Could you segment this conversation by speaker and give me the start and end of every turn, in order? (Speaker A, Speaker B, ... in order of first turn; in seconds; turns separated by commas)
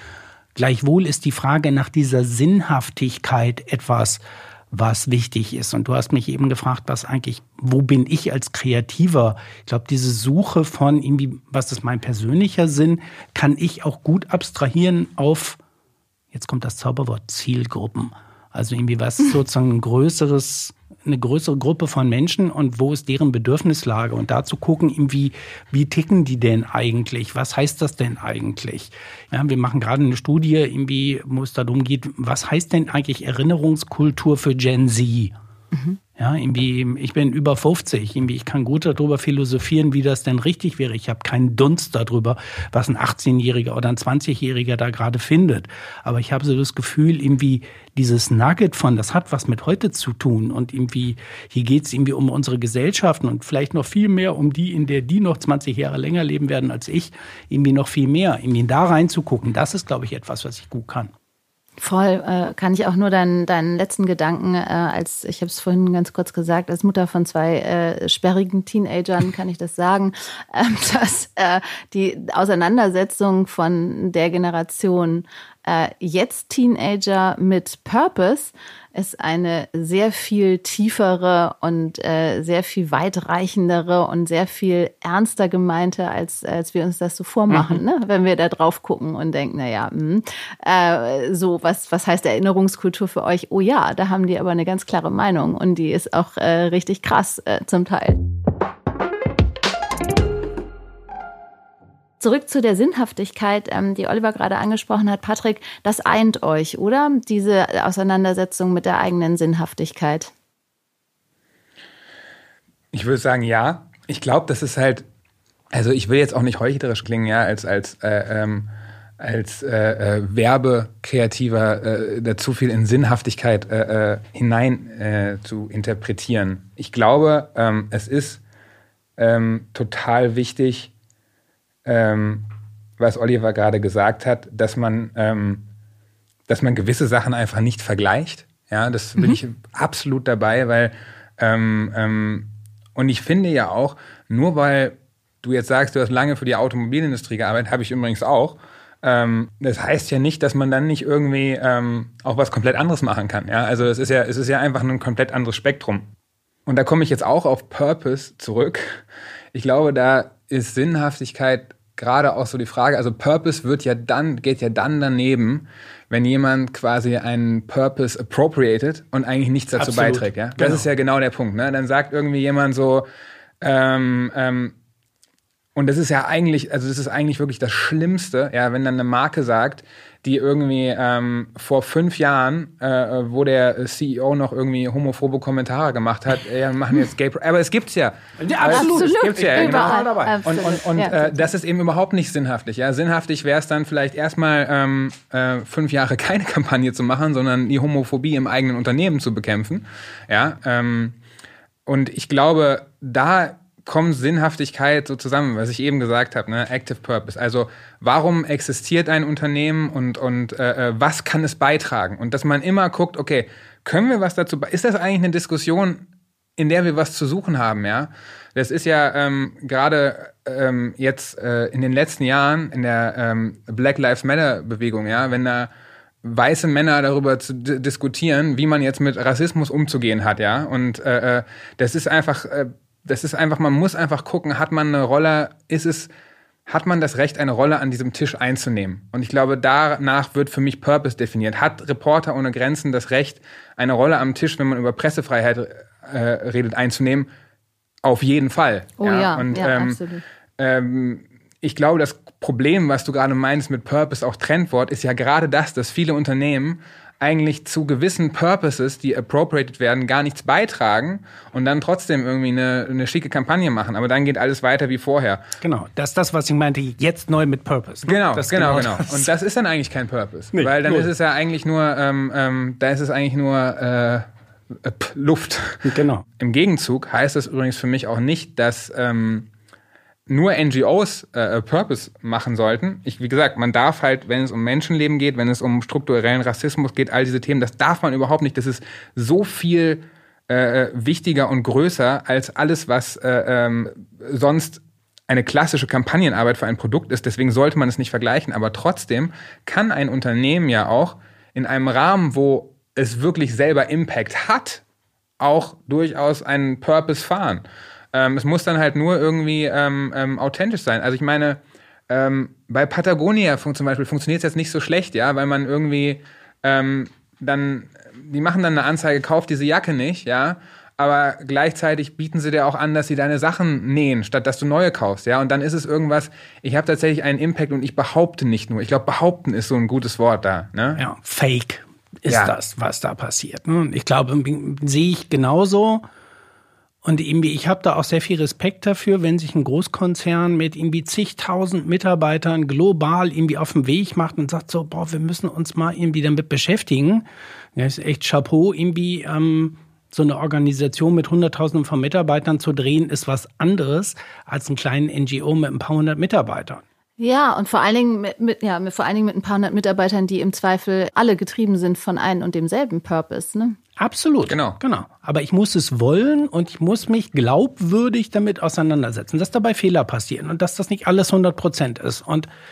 Speaker A: 0.5-4.2, Speaker A: 4.7-15.6, Speaker A: 16.3-35.3, Speaker A: 36.1-61.1, Speaker B: 61.8-98.2, Speaker A: 87.5-87.8, Speaker B: 102.2-110.3, Speaker C: 112.9-115.0, Speaker C: 115.7-118.7, Speaker C: 119.2-128.4, Speaker C: 129.2-130.9, Speaker C: 131.8-132.5, Speaker C: 133.0-135.6, Speaker C: 136.5-156.1, Speaker C: 156.7-173.1, Speaker A: 169.8-170.9, Speaker C: 173.6-174.7, Speaker C: 175.7-201.2, Speaker A: 188.4-190.4, Speaker B: 188.7-191.4, Speaker C: 201.8-216.0, Speaker C: 216.6-225.7, Speaker C: 226.2-236.1, Speaker C: 236.7-247.3, Speaker C: 248.0-250.0, Speaker B: 249.0-250.2, Speaker C: 250.6-265.4, Speaker A: 265.6-269.3, Speaker C: 268.1-279.5, Speaker A: 270.5-271.1, Speaker A: 275.8-276.2, Speaker C: 280.3-304.8, Speaker C: 305.4-331.0, Speaker A: 331.0-336.0, Speaker C: 332.3-332.5, Speaker A: 337.0-347.2, Speaker A: 347.7-356.8, Speaker B: 357.2-363.8, Speaker A: 364.0-372.5, Speaker C: 364.4-364.8